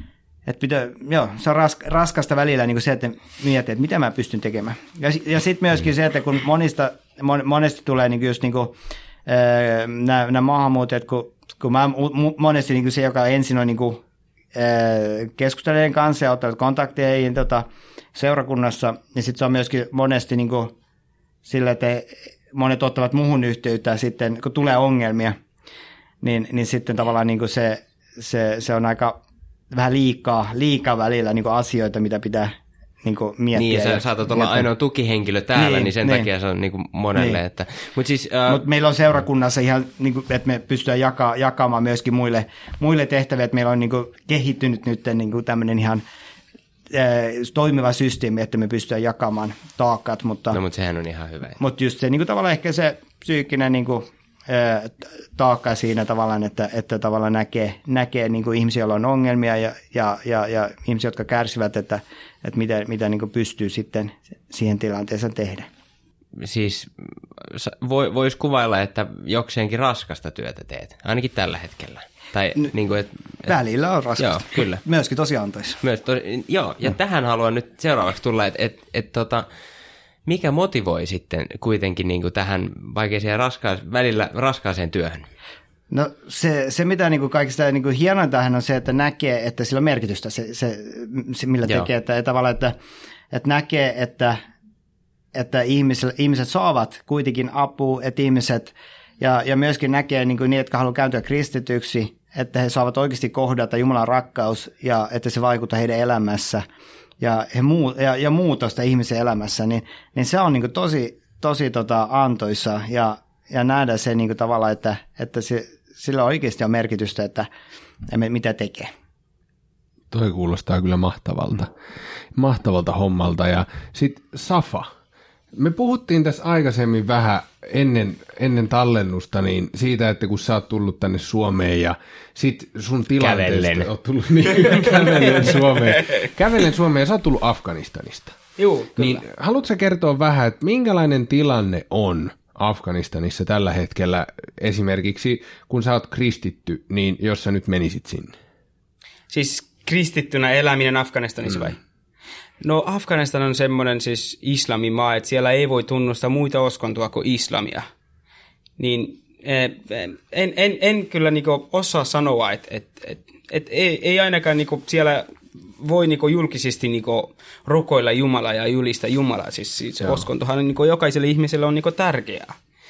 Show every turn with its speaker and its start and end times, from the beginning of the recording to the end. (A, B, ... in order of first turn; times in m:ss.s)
0:00.4-0:14.0 A
0:14.5-0:20.7 A
0:21.4-0:25.4 A
0:26.2-0:29.2 A
0:29.7-0:34.7 A
0:33.5-0:38.6 B
0:35.5-0:36.3 A
0:38.5-0:46.0 A
0:46.9-0:50.6 A
0:50.5-0:51.6 B
0:51.6-1:05.7 A
1:06.4-1:13.5 B
1:13.4-1:15.8 A
1:14.2-1:14.8 B
1:15.8-1:19.4 B
1:20.2-1:25.3 B
1:25.9-1:32.7 A
1:33.3-1:34.4 A
1:35.3-1:46.6 A
1:47.2-1:57.5 A
1:58.1-1:58.9 A
2:00.1-2:01.7 C
2:02.3-2:04.9 C
2:05.5-2:18.4 C
2:13.2-2:13.9 B
2:18.6-2:19.2 D
2:19.0-2:28.3 C
2:29.3-2:31.8 D
2:32.6-2:37.8 D
2:38.8-2:45.3 D
2:45.8-2:52.6 D